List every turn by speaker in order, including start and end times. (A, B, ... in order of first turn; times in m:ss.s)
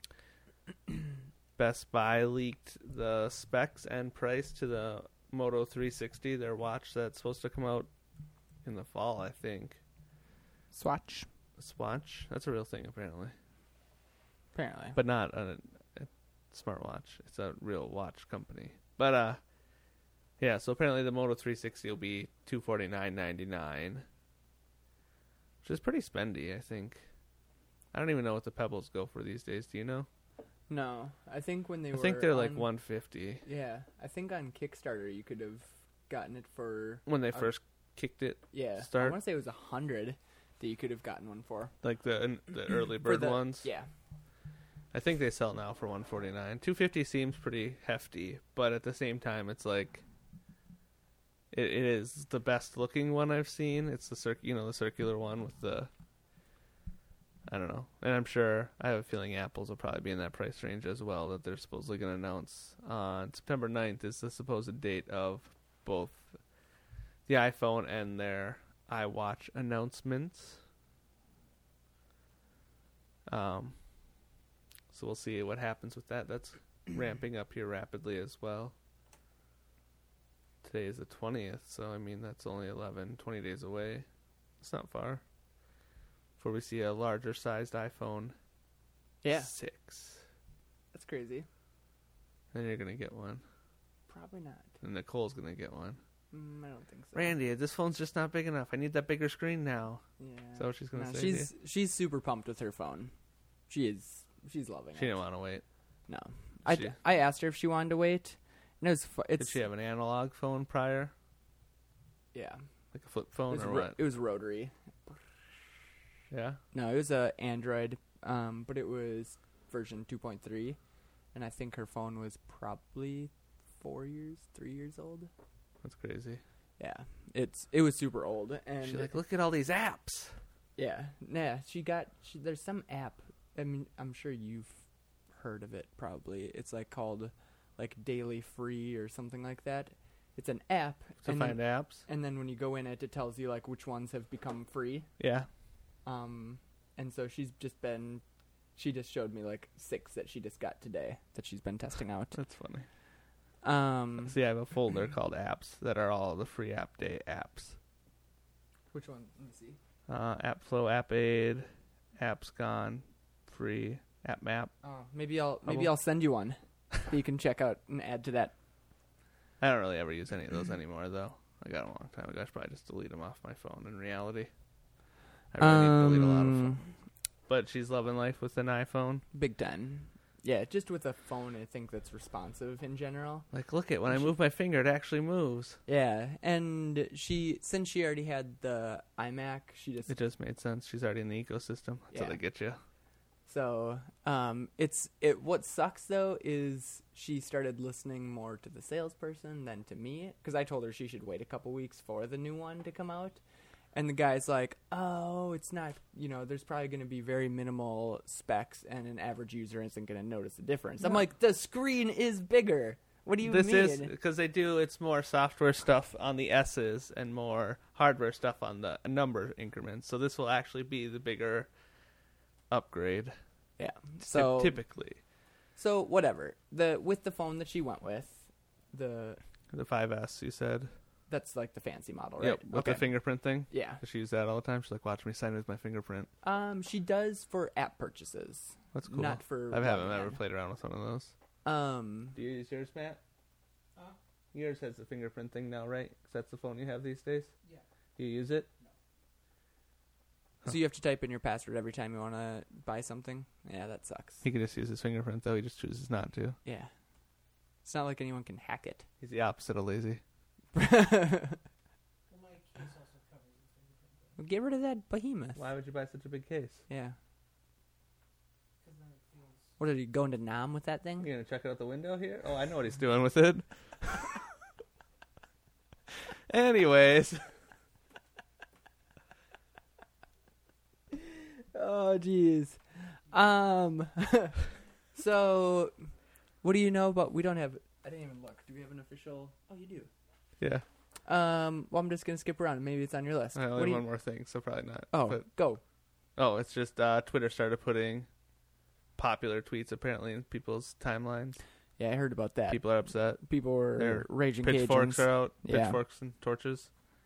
0:01.6-0:07.9 A
0:08.6-0:09.8 A
0:10.7-0:11.3 B
0:11.6-0:13.3 A
0:14.5-0:15.0 B
0:15.0-0:19.4 A
0:20.4-0:24.0 A
0:25.6-0:27.0 A
0:27.9-0:30.1 A
0:30.7-0:32.7 B
0:31.9-0:33.4 A
0:33.4-0:37.5 B
0:37.1-0:39.2 A
0:38.5-0:41.7 B
0:41.8-0:43.7 A
0:43.0-0:43.9 B
0:44.9-0:50.0 A
0:51.5-0:55.9 A
0:57.5-1:06.4 A
1:07.3-1:10.6 A
1:13.3-1:13.8 A
1:14.9-1:18.7 A
1:20.6-1:24.0 A
1:24.6-1:25.2 A
1:26.4-1:28.3 A
1:29.2-1:29.5 B
1:29.4-1:30.2 A
1:30.9-1:31.5 B
1:32.5-1:33.4 A
1:34.1-1:34.7 B
1:34.8-1:36.0 A
1:36.3-1:37.3 B
1:37.1-1:40.0 A
1:40.2-1:43.1 B
1:40.6-1:41.5 A
1:43.7-1:45.2 B
1:44.9-1:45.6 A
1:46.1-1:49.6 B
1:46.6-1:46.9 A
1:49.4-1:51.1 A
1:52.3-1:52.6 B
1:52.9-1:54.0 A
1:53.5-1:55.2 B
1:56.3-1:56.6 A
1:56.7-2:00.8 B
2:01.3-2:05.3 B
2:05.8-2:06.4 A
2:06.8-2:09.1 B
2:08.8-2:10.4 A
2:10.8-2:14.8 B
2:15.3-2:25.1 B
2:21.2-2:22.0 A
2:25.2-2:25.5 A
2:26.0-2:28.2 B
2:28.8-2:32.4 B
2:32.3-2:32.9 A
2:33.6-2:34.4 B
2:34.2-2:37.8 A
2:38.9-2:39.8 B
2:40.1-2:44.7 A
2:44.8-2:48.5 B
2:45.6-2:45.9 A
2:49.6-2:54.5 A
2:55.5-2:56.8 A
2:55.6-2:56.8 B
2:57.5-2:59.2 A
2:59.3-3:03.5 B
3:03.5-3:05.8 A
3:05.9-3:10.1 B
3:10.1-3:12.8 A
3:12.1-3:12.4 B
3:13.5-3:23.4 B
3:23.9-3:34.1 B
3:33.4-3:41.7 A
3:42.7-3:43.3 A
3:43.8-3:44.8 B
3:44.2-3:45.2 A
3:45.8-3:49.4 B
3:49.7-3:50.9 A
3:51.3-3:53.1 B
3:52.4-3:56.3 A
3:53.7-3:54.0 B
3:56.4-4:00.4 B
3:58.9-4:01.3 A
4:01.6-4:02.4 B
4:02.3-4:03.2 A
4:04.5-4:07.5 A
4:08.2-4:08.7 A
4:10.6-4:14.4 B
4:14.4-4:16.6 A
4:16.6-4:16.9 B
4:17.8-4:19.0 B
4:19.2-4:20.2 A
4:20.7-4:21.6 B
4:22.3-4:24.4 C
4:24.4-4:25.6 B
4:25.6-4:26.8 A
4:26.9-4:27.2 B
4:28.8-4:29.7 C
4:29.8-4:31.3 B
4:31.2-4:34.4 A
4:36.5-4:37.4 A
4:41.1-4:45.9 B
4:46.6-4:50.1 B
4:50.6-4:50.8 A
4:51.2-4:54.0 B
4:53.5-4:55.4 A
4:55.1-4:55.8 B
4:56.4-4:58.3 A
4:59.2-5:01.6 A
5:02.0-5:02.8 B
5:02.7-5:06.9 A
5:03.4-5:06.0 B